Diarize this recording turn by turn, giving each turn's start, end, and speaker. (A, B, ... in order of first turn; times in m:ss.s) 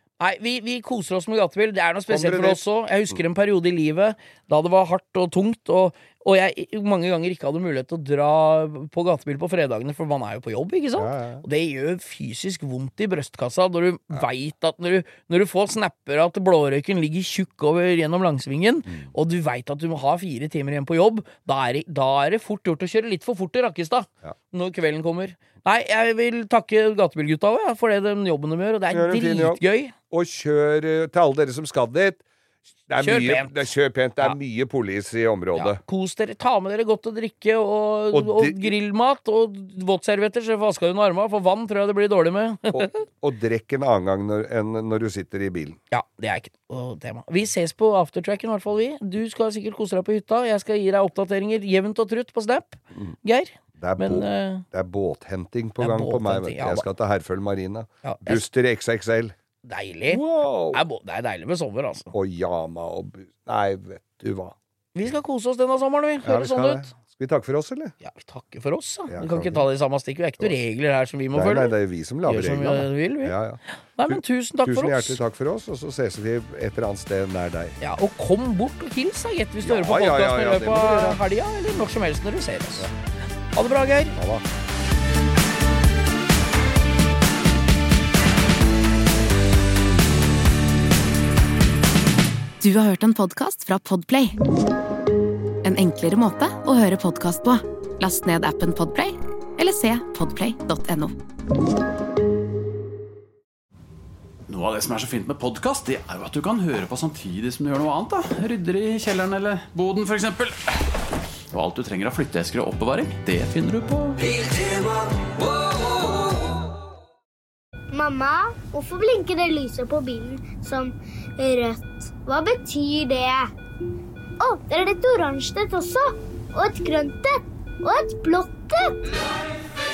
0:00.2-0:29.9 A
0:02.1-0:03.2 B
0:11.0-0:11.4 B
0:28.9-0:32.2 B
0:32.9-0:35.8 B
0:33.0-0:33.7 A
0:35.5-0:43.0 A
0:38.1-0:38.8 B
0:42.7-0:45.8 B
0:45.9-0:54.6 A
0:53.8-0:59.4 B
0:55.8-0:56.9 A
0:58.0-0:58.4 A
0:59.6-1:00.2 A
1:00.1-1:00.8 B
1:00.7-1:02.1 A
1:02.1-1:04.6 B
1:05.0-1:06.9 A
1:06.2-1:07.9 B
1:08.0-1:11.7 A
1:09.1-1:09.6 B
1:11.3-1:17.8 B
1:12.2-1:13.4 A
1:14.0-1:15.2 A
1:17.8-1:22.9 A
1:19.6-1:21.2 B
1:23.5-1:24.2 A
1:24.2-1:24.4 B
1:32.6-1:34.4 C
1:35.6-1:41.2 C
1:44.5-1:50.6 D
1:51.5-1:54.5 D
1:57.9-2:03.5 E
2:04.4-2:09.0 E